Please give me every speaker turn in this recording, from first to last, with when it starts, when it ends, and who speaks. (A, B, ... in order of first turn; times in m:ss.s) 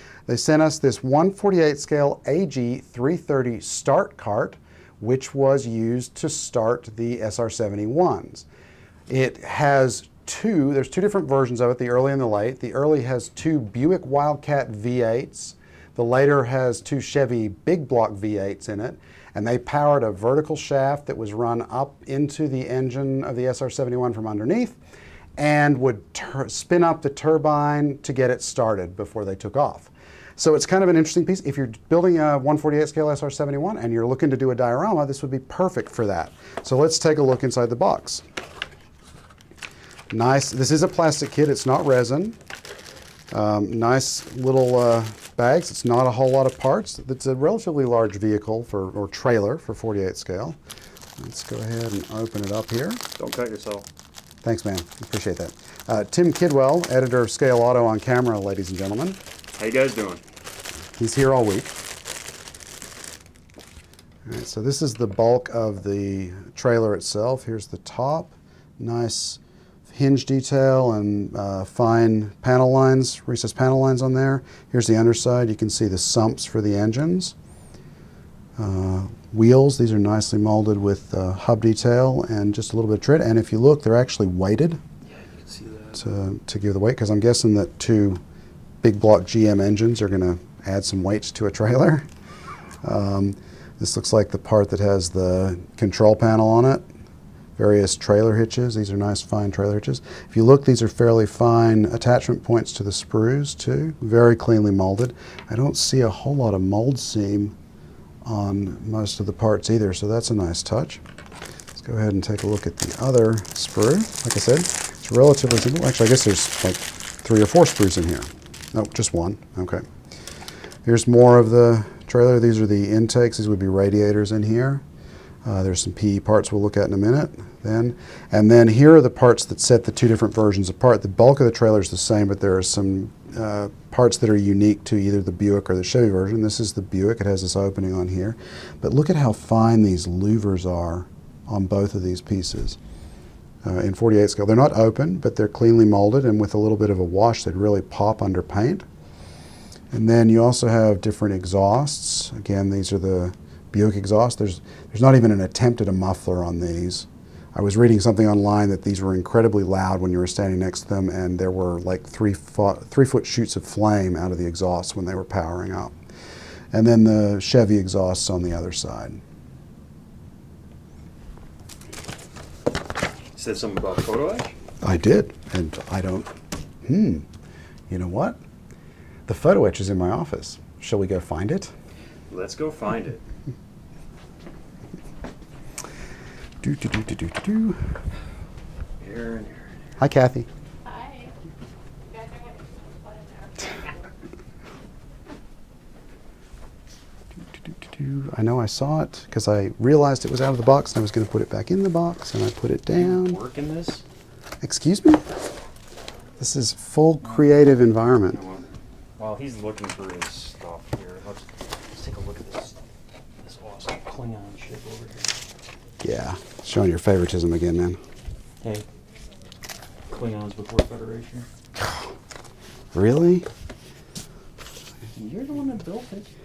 0:00.3-0:08.5 A
0:09.1-0:24.8 A
0:25.4-0:38.2 A
0:40.1-0:42.4 A
0:43.3-0:50.6 A
0:51.2-0:53.0 A
0:53.2-0:53.8 B
0:54.4-0:59.2 A
0:59.6-1:00.2 B
1:01.0-1:01.8 A
1:04.3-1:17.3 A
1:18.6-1:24.8 A
1:25.1-1:26.0 B
1:26.0-1:28.2 A
1:28.8-1:32.1 A
1:32.8-1:36.8 A
1:37.6-1:47.6 A
1:48.2-1:51.0 A
1:51.8-1:59.8 A
2:00.8-2:04.8 A
2:05.4-2:22.8 A
2:23.6-2:28.9 A
2:29.9-2:46.0 A
2:46.7-2:49.2 A
2:53.4-2:54.5 B
2:54.8-2:56.3 A
2:56.8-2:57.2 A
2:57.9-2:58.4 A
2:59.3-3:01.7 A
3:02.3-3:03.2 B
3:06.6-3:07.8 A
3:09.0-3:09.8 B
3:10.0-3:10.5 A
3:10.9-3:11.3 C
3:12.1-3:13.9 C
3:17.7-3:23.4 A
3:23.0-3:24.0 B
3:24.6-3:25.2 A
3:26.4-3:28.4 A
3:27.2-3:27.5 B
3:28.3-3:32.8 B
3:33.4-3:35.4 B
3:36.0-3:38.0 A
3:40.1-3:41.5 B
3:42.9-3:43.5 A
3:45.1-3:46.3 B